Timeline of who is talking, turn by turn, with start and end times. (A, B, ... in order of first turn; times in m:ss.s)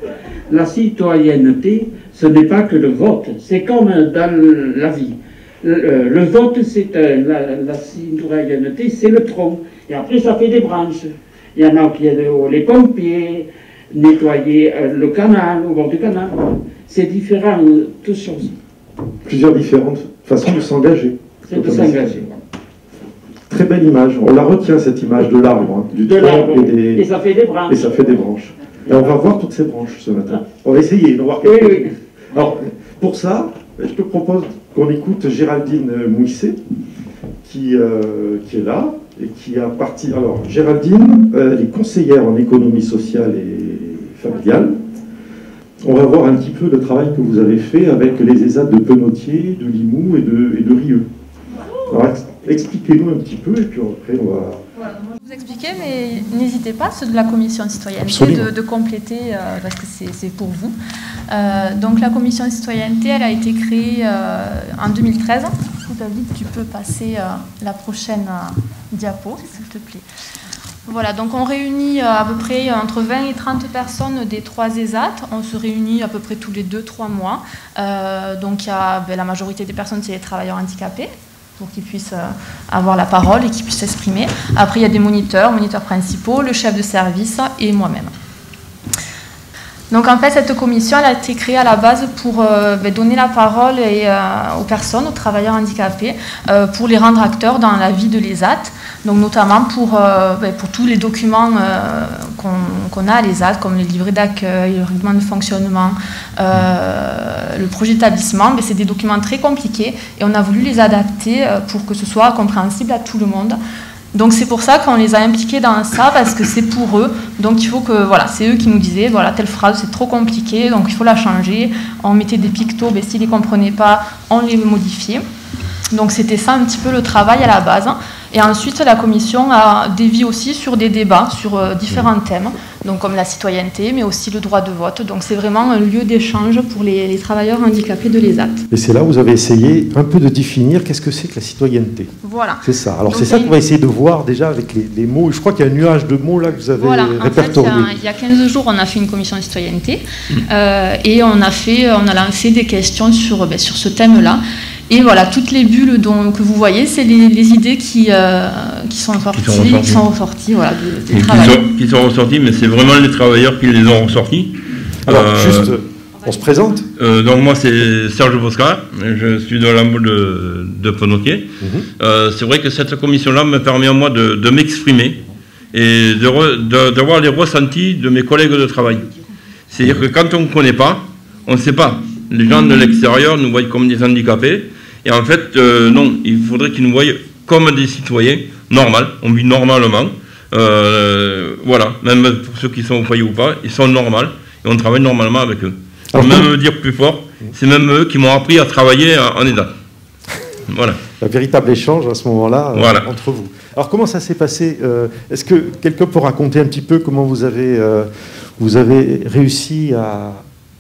0:00.5-0:18.5 A
0:19.3-0:22.4 B
0:21.5-0:22.2 A
0:23.5-0:27.1 B
0:26.0-0:28.2 A
0:27.7-0:36.6 B
0:31.4-0:31.8 A
0:37.4-0:44.8 B
0:45.8-0:51.1 B
0:51.9-0:54.6 B
0:55.2-1:00.8 C
0:58.0-0:58.5 B
1:01.3-1:10.0 C
1:10.9-1:28.1 C
1:29.9-1:53.6 C
1:54.1-2:05.2 C
2:05.9-2:18.6 C
2:18.7-2:22.1 B
2:22.2-2:23.6 C
2:22.6-2:27.9 B
2:26.8-2:41.6 C
2:39.4-2:40.0 D
2:41.1-2:44.6 D
2:45.1-2:45.7 D
2:45.1-2:46.9 B
2:47.0-2:51.5 D
2:51.6-2:51.9 B
2:52.0-2:55.2 D
2:55.7-2:59.1 D
2:59.7-3:19.7 D
3:16.1-3:16.5 B
3:20.7-3:21.0 D
3:21.2-3:30.4 B
3:22.7-3:23.1 D